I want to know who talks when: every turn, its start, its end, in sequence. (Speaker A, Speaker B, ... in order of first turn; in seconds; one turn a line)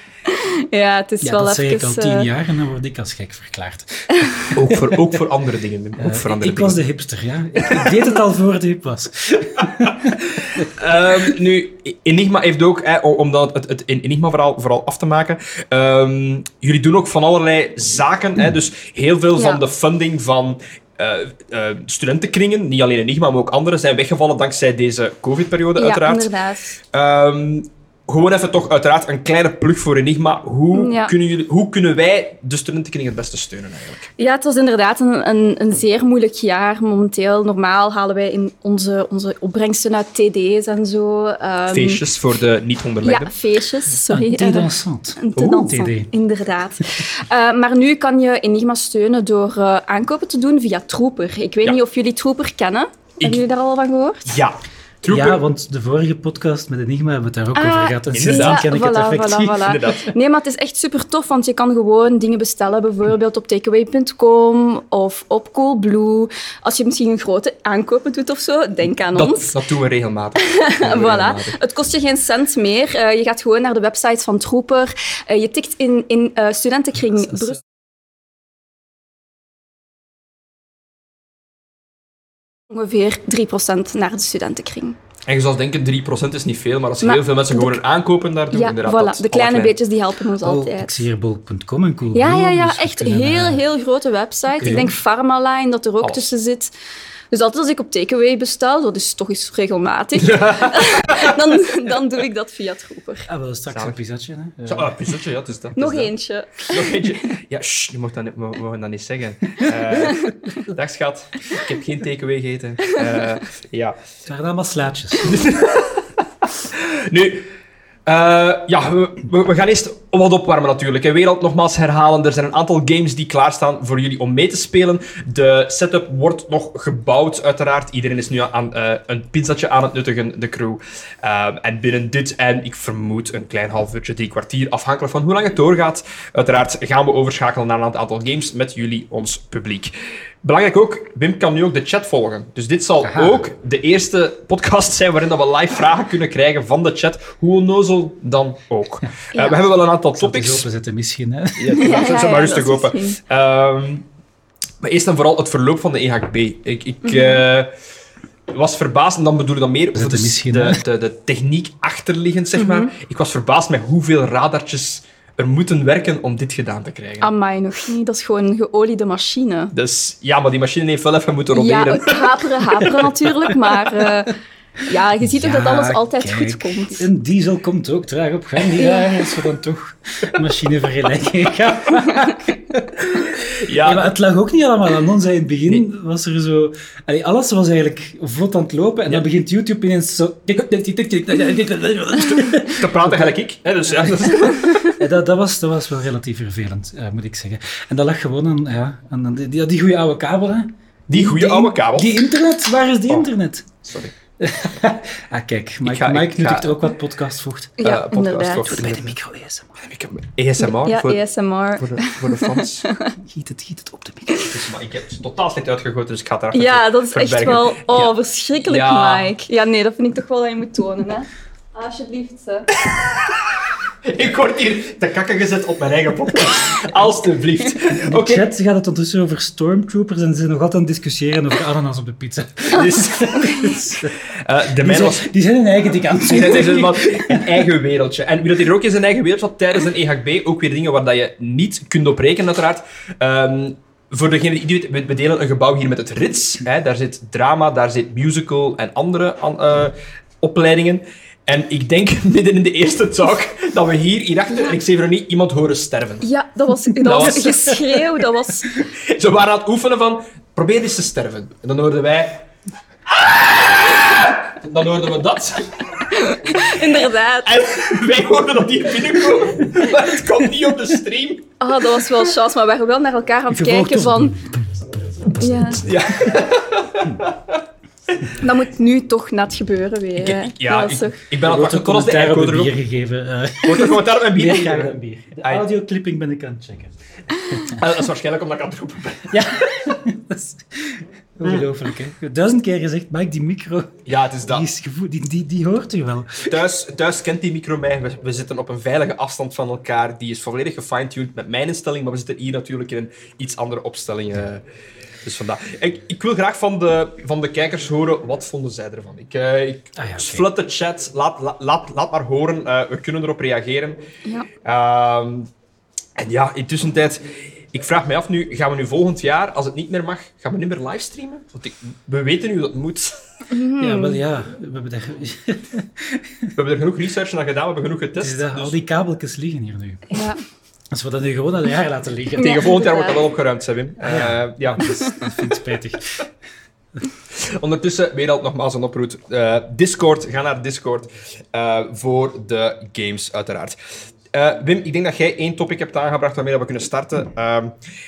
Speaker A: 0.3-2.3
Speaker B: 1.2-4.8
Speaker C: 4.5-6.8
Speaker B: 6.0-10.7
Speaker C: 10.1-34.1
Speaker A: 19.4-19.6
Speaker A: 25.8-26.8
Speaker A: 30.7-31.1
Speaker A: 34.2-42.0
Speaker C: 41.7-43.4
Speaker A: 43.0-54.4
Speaker B: 44.1-46.1
Speaker C: 45.4-45.7
Speaker C: 54.3-55.4
Speaker B: 55.1-59.6
Speaker A: 57.6-69.6
Speaker C: 58.1-58.7
Speaker C: 59.5-60.1
Speaker C: 69.1-71.6
Speaker A: 70.4-77.6
Speaker A: 82.7-85.0
Speaker C: 85.3-89.8
Speaker A: 87.0-87.8
Speaker A: 88.5-91.1
Speaker B: 90.4-93.6
Speaker A: 92.1-96.7
Speaker C: 94.6-95.0
Speaker C: 96.0-96.3
Speaker A: 97.3-103.3
Speaker C: 100.2-101.4
Speaker B: 103.3-105.0
Speaker C: 103.7-104.0
Speaker C: 104.7-106.1
Speaker A: 105.8-107.3
Speaker C: 106.7-114.0
Speaker A: 110.0-110.3
Speaker A: 112.9-113.3
Speaker B: 114.3-115.5
Speaker C: 115.2-117.5
Speaker C: 118.1-150.7
Speaker B: 143.0-143.4
Speaker A: 149.3-149.7
Speaker B: 150.2-151.9
Speaker C: 151.6-154.1
Speaker A: 151.8-153.2
Speaker C: 154.8-157.7
Speaker A: 157.0-157.4
Speaker C: 158.5-167.3
Speaker B: 159.9-160.8
Speaker A: 162.6-162.9
Speaker A: 167.2-169.7
Speaker C: 169.7-173.1
Speaker A: 171.5-174.3
Speaker A: 174.9-177.1
Speaker B: 175.2-193.3
Speaker A: 178.7-179.2
Speaker C: 183.0-184.2
Speaker C: 192.7-194.9
Speaker B: 194.2-203.7
Speaker C: 201.1-202.3
Speaker C: 203.8-204.1
Speaker B: 204.4-207.8
Speaker C: 205.8-206.8
Speaker A: 207.8-208.8
Speaker C: 207.8-209.1
Speaker B: 208.6-209.8
Speaker C: 209.8-211.2
Speaker A: 210.6-213.1
Speaker C: 211.8-212.8
Speaker B: 213.2-214.5
Speaker C: 214.5-218.1
Speaker A: 216.5-222.7
Speaker C: 218.6-219.3
Speaker C: 222.8-228.5
Speaker B: 227.9-234.2
Speaker C: 232.7-235.3
Speaker B: 234.8-237.7
Speaker C: 236.2-256.3
Speaker A: 256.2-258.7
Speaker C: 257.0-257.8
Speaker B: 257.1-257.8
Speaker C: 258.9-262.5
Speaker C: 263.1-266.1
Speaker A: 266.1-267.6
Speaker C: 267.4-272.2
Speaker A: 271.6-274.4
Speaker B: 273.5-275.8
Speaker A: 275.4-275.9
Speaker C: 275.8-277.6
Speaker A: 278.4-281.2
Speaker C: 280.2-282.8
Speaker B: 281.4-287.8
Speaker C: 283.6-285.7
Speaker C: 287.7-289.5
Speaker B: 289.3-296.6
Speaker C: 294.1-294.7
Speaker C: 296.4-304.6
Speaker C: 305.2-314.0
Speaker B: 310.0-310.5
Speaker C: 314.6-315.5
Speaker C: 316.2-323.2
Speaker A: 323.5-324.2
Speaker B: 323.8-326.6
Speaker C: 326.6-328.8
Speaker B: 328.2-330.2
Speaker A: 330.1-330.4
Speaker B: 330.9-332.6
Speaker C: 332.4-334.9
Speaker A: 332.4-333.3
Speaker B: 334.0-336.3
Speaker C: 337.3-343.8
Speaker C: 344.3-347.8